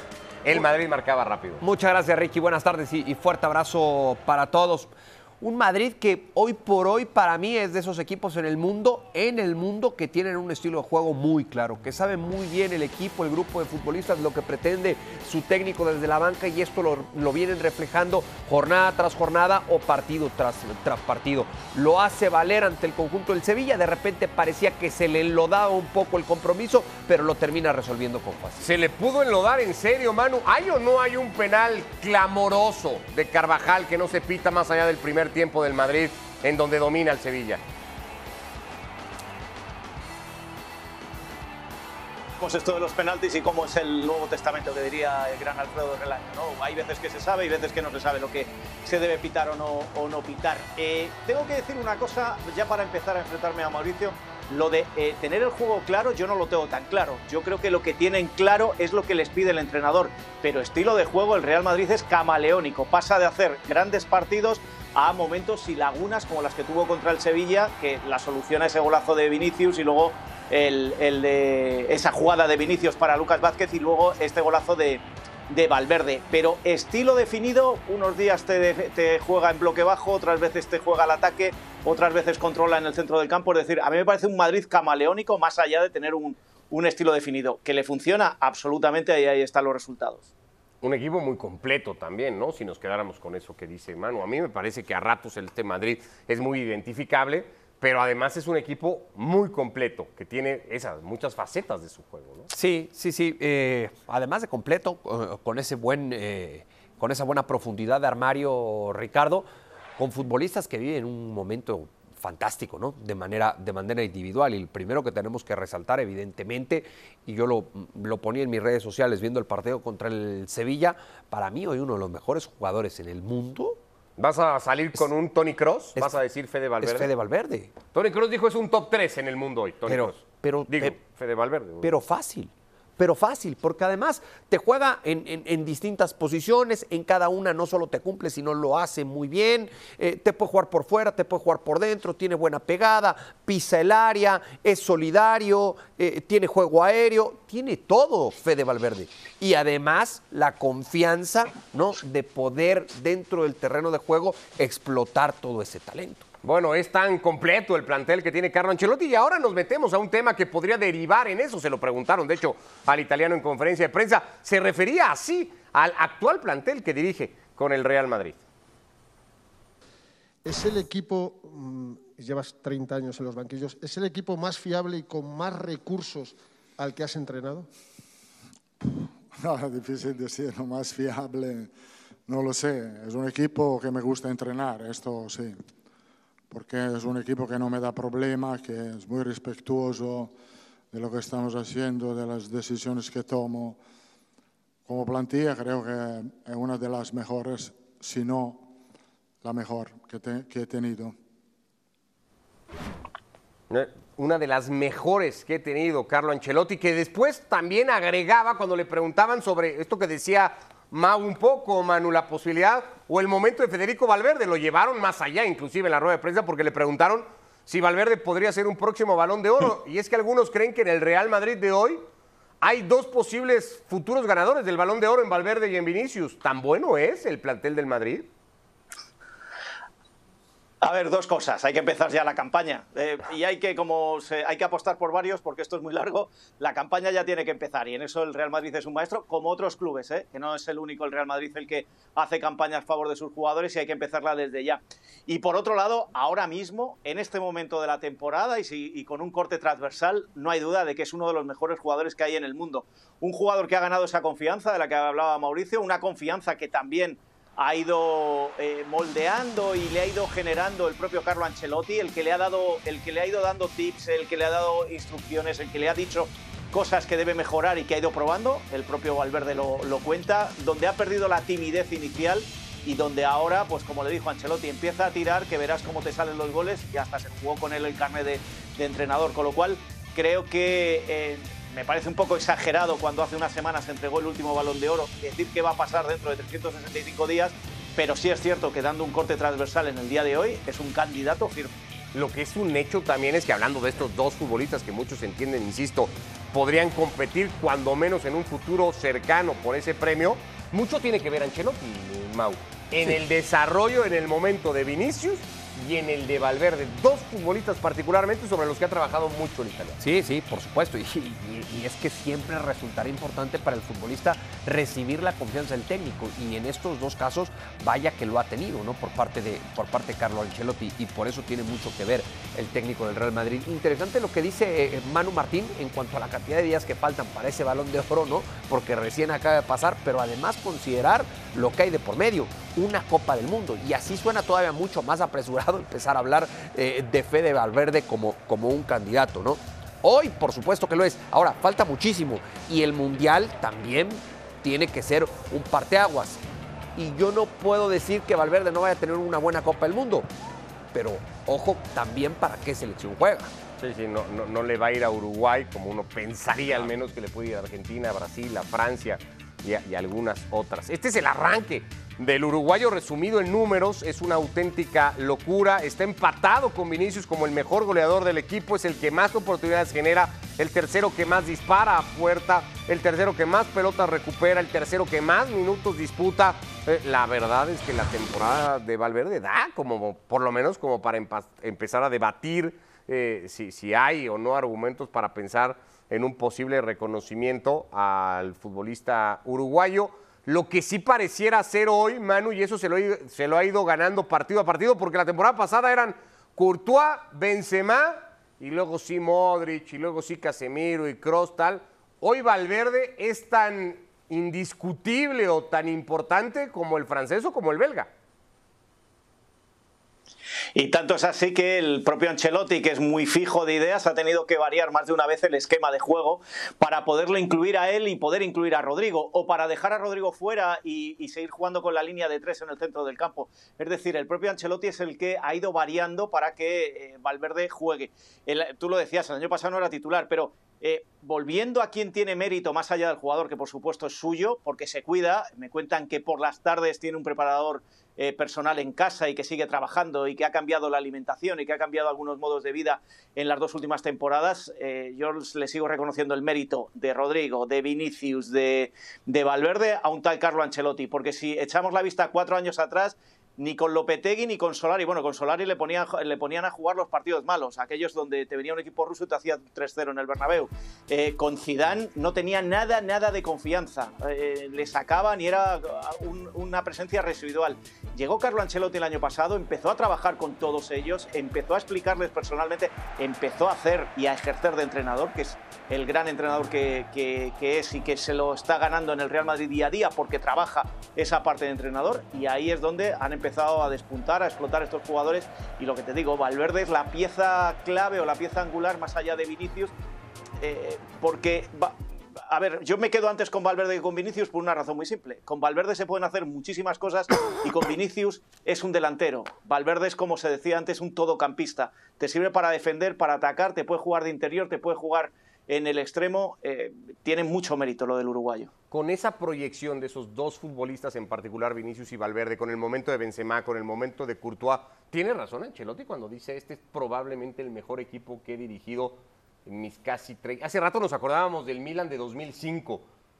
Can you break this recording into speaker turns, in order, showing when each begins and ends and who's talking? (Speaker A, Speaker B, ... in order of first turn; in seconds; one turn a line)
Speaker A: 0.4-1.6
Speaker B: 1.6-28.6
Speaker A: 28.6-37.6
Speaker C: 42.4-90.3
Speaker A: 90.8-102.5
Speaker B: 102.5-109.5
Speaker B: 110.0-123.8
Speaker A: 124.2-127.1
Speaker B: 126.8-127.7
Speaker A: 127.9-131.9
Speaker B: 129.9-131.0
Speaker B: 131.8-156.3
Speaker A: 156.4-168.4
Speaker D: 170.4-177.7
Speaker E: 178.8-181.7
Speaker E: 182.3-185.6
Speaker E: 186.5-190.3
Speaker E: 190.9-193.8
Speaker E: 194.8-198.7
Speaker E: 199.4-201.2
Speaker A: 203.7-222.0
Speaker A: 222.6-228.3
Speaker C: 230.8-291.7
Speaker A: 292.1-310.0
Speaker B: 310.0-346.4
Speaker B: 346.9-350.3
Speaker B: 350.9-353.5
Speaker A: 353.8-408.1
Speaker C: 410.7-489.9
Speaker C: 490.6-492.0
Speaker C: 492.5-508.7
Speaker A: 508.9-523.0